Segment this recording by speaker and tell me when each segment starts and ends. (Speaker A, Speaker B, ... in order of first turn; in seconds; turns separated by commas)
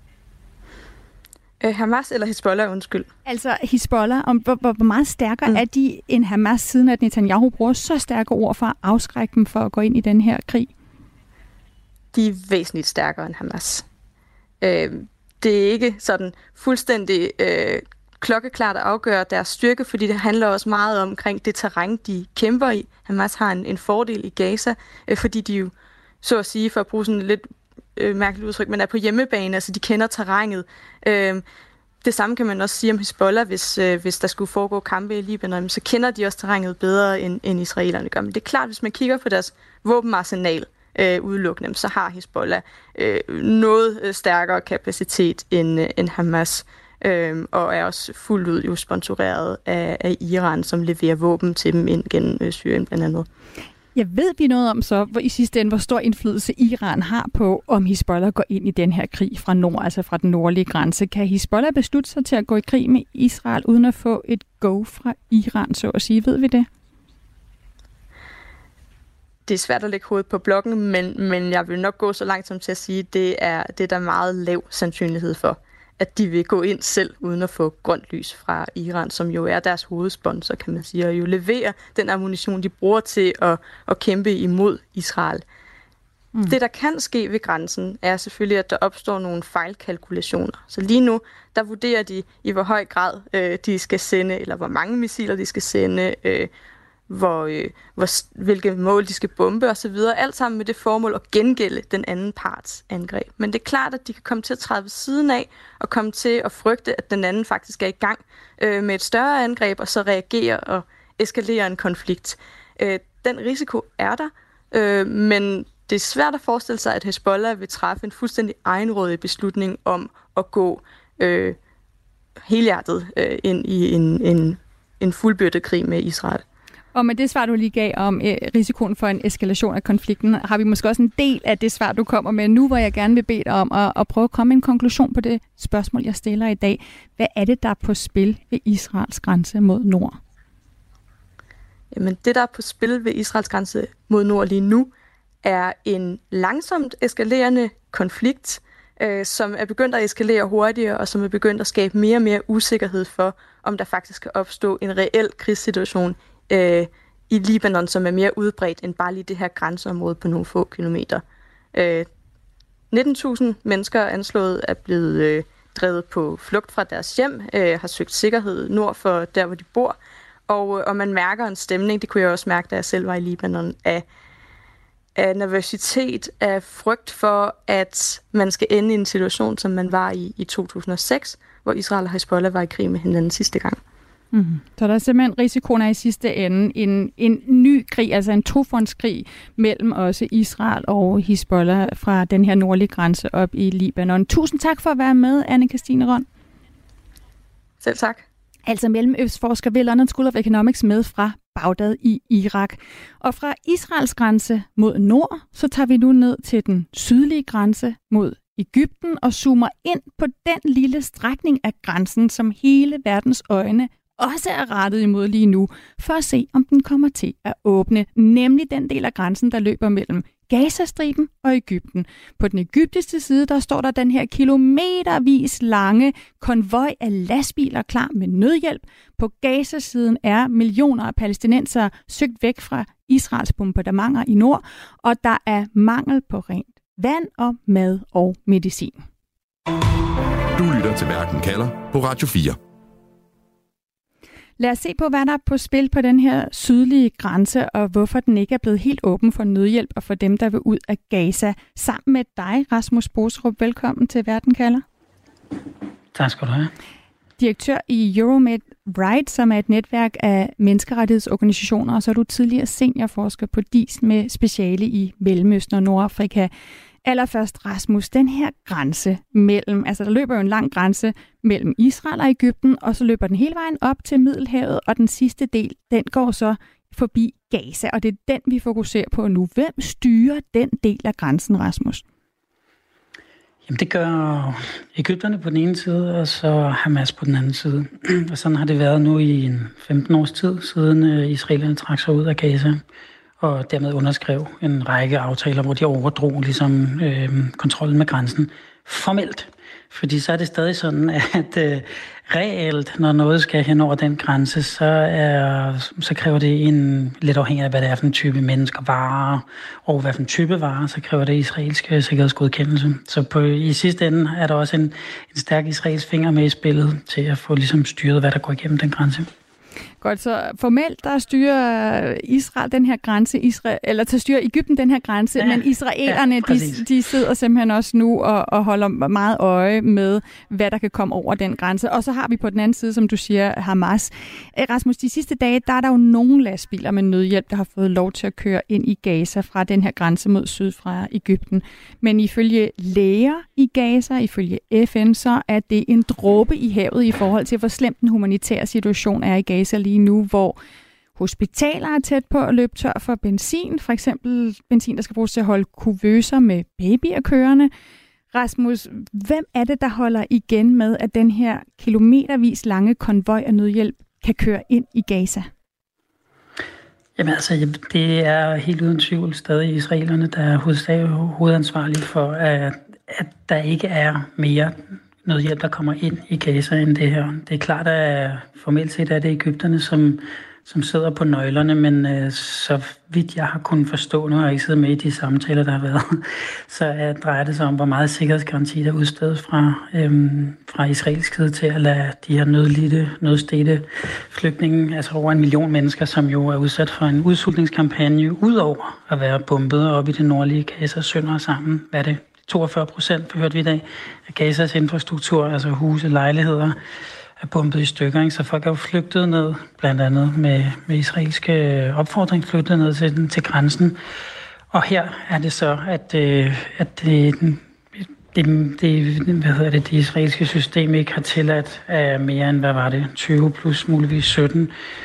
Speaker A: 1.6-3.1, Speaker B: 3.2-10.7, Speaker A: 12.1-13.8, Speaker A: 14.6-31.4, Speaker A: 32.0-53.3, Speaker B: 53.9-66.7, Speaker A: 69.5-85.4, Speaker A: 86.5-96.5, Speaker A: 97.1-121.5, Speaker A: 122.5-126.4, Speaker B: 126.9-140.2, Speaker A: 141.9-144.9, Speaker A: 145.4-161.2, Speaker A: 161.7-162.1, Speaker A: 162.9-169.9, Speaker A: 170.5-174.0, Speaker A: 175.2-183.8, Speaker B: 184.3-196.3, Speaker A: 197.8-198.2, Speaker B: 198.7-239.0, Speaker C: 240.5-242.6, Speaker B: 244.6-254.8, Speaker D: 256.1-256.7, Speaker B: 257.4-266.5, Speaker B: 267.0-282.0, Speaker D: 283.6-292.8, Speaker D: 293.4-319.3, Speaker B: 320.0-350.6, Speaker D: 325.4-326.9, Speaker B: 351.1-357.7, Speaker B: 358.3-365.5, Speaker D: 367.2-406.8, Speaker D: 407.4-414.0, Speaker D: 414.7-424.7